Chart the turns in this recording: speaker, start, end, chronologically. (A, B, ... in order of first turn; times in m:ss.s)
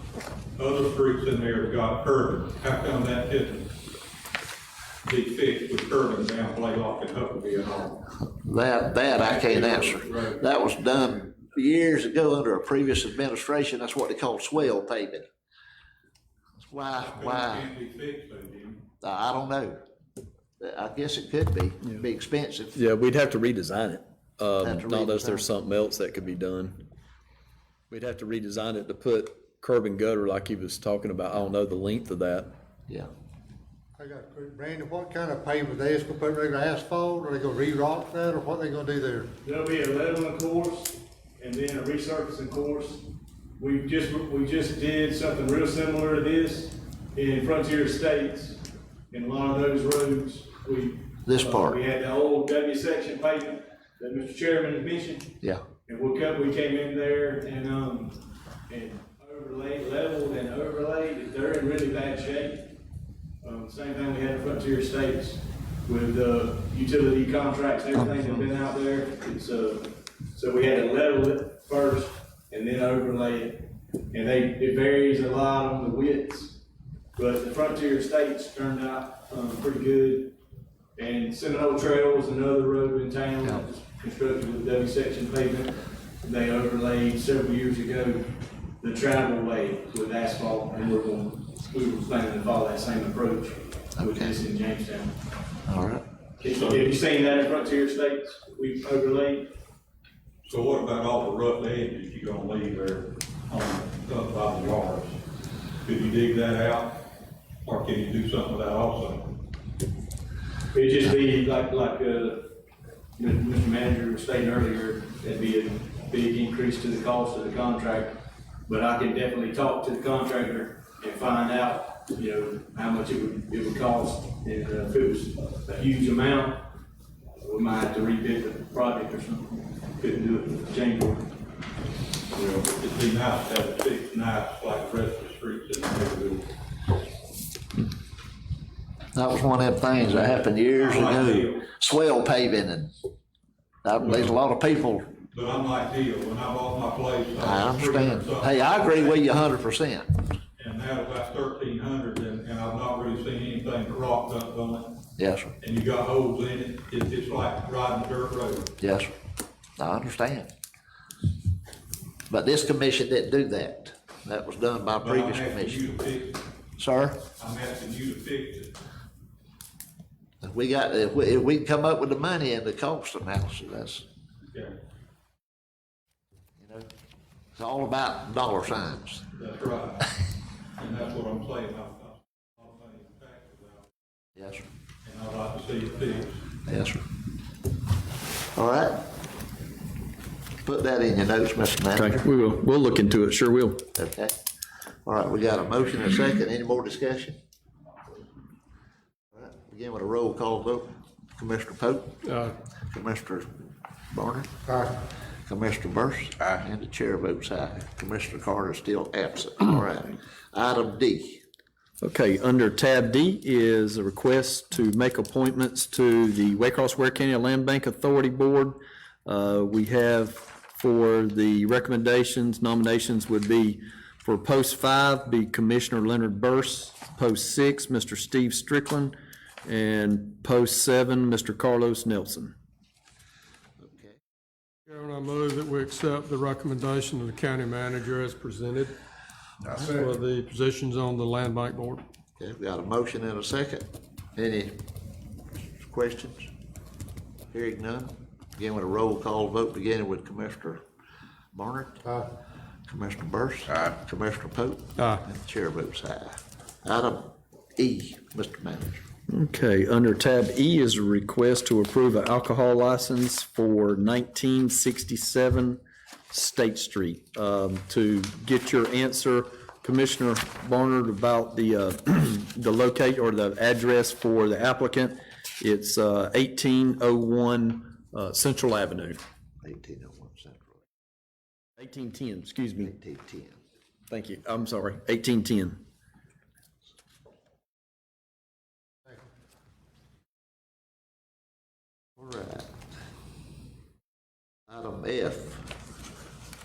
0:00.6-0:03.7 A
0:05.0-0:08.0 A
0:08.4-0:15.2 B
0:09.2-0:10.4 A
0:16.6-0:17.7 B
0:17.0-0:18.8 A
0:19.0-0:19.8 B
0:20.6-0:22.8 B
0:22.7-0:26.8 C
0:24.6-0:25.4 B
0:27.9-0:32.5 C
0:34.0-0:39.3 D
0:39.4-1:02.7 E
0:51.2-0:51.8 B
1:03.4-1:16.6 E
1:17.2-1:20.3 E
1:21.0-1:35.1 E
1:34.0-1:34.3 B
1:35.7-1:36.0 B
1:36.4-1:39.5 E
1:36.6-1:36.8 A
1:40.4-1:45.2 A
1:45.8-1:47.0 A
1:47.6-1:49.4 A
1:50.7-1:52.5 E
1:53.2-1:58.1 E
1:58.6-2:06.6 E
2:07.4-2:11.3 E
2:12.3-2:16.5 A
2:19.1-2:22.9 B
2:20.2-2:21.7 A
2:23.8-2:25.1 B
2:24.0-2:24.4 A
2:25.3-2:29.2 A
2:27.4-2:30.1 B
2:30.6-2:35.0 A
2:35.2-2:35.5 B
2:35.6-2:38.8 A
2:38.8-2:39.1 B
2:39.8-2:40.5 B
2:42.3-2:45.8 B
2:45.0-2:46.4 A
2:46.8-2:47.2 B
2:47.4-2:48.8 A
2:50.4-2:54.0 B
2:54.5-2:54.8 A
2:56.6-2:56.9 B
2:57.6-2:59.2 B
2:59.3-3:00.2 A
3:00.8-3:03.9 A
3:04.4-3:04.6 B
3:05.0-3:06.4 A
3:06.7-3:07.0 B
3:08.5-3:09.0 B
3:10.6-3:12.2 B
3:12.0-3:13.8 C
3:13.9-3:14.3 B
3:15.0-3:17.4 B
3:19.3-3:23.5 B
3:24.1-3:24.6 B
3:25.4-3:31.4 B
3:32.0-3:49.1 C
3:49.6-3:52.5 C
3:53.8-3:54.1 B
3:54.9-3:58.9 F
3:59.7-4:02.0 F
4:02.4-4:04.8 B
4:05.8-4:06.5 B
4:07.5-4:10.8 B
4:11.5-4:12.3 B
4:12.9-4:19.0 B
4:19.3-4:39.2 C
4:39.6-4:40.8 B
4:41.8-4:42.9 C
4:42.8-4:43.6 B
4:44.1-4:45.8 C
4:52.2-4:52.7 B
4:54.7-4:55.6 B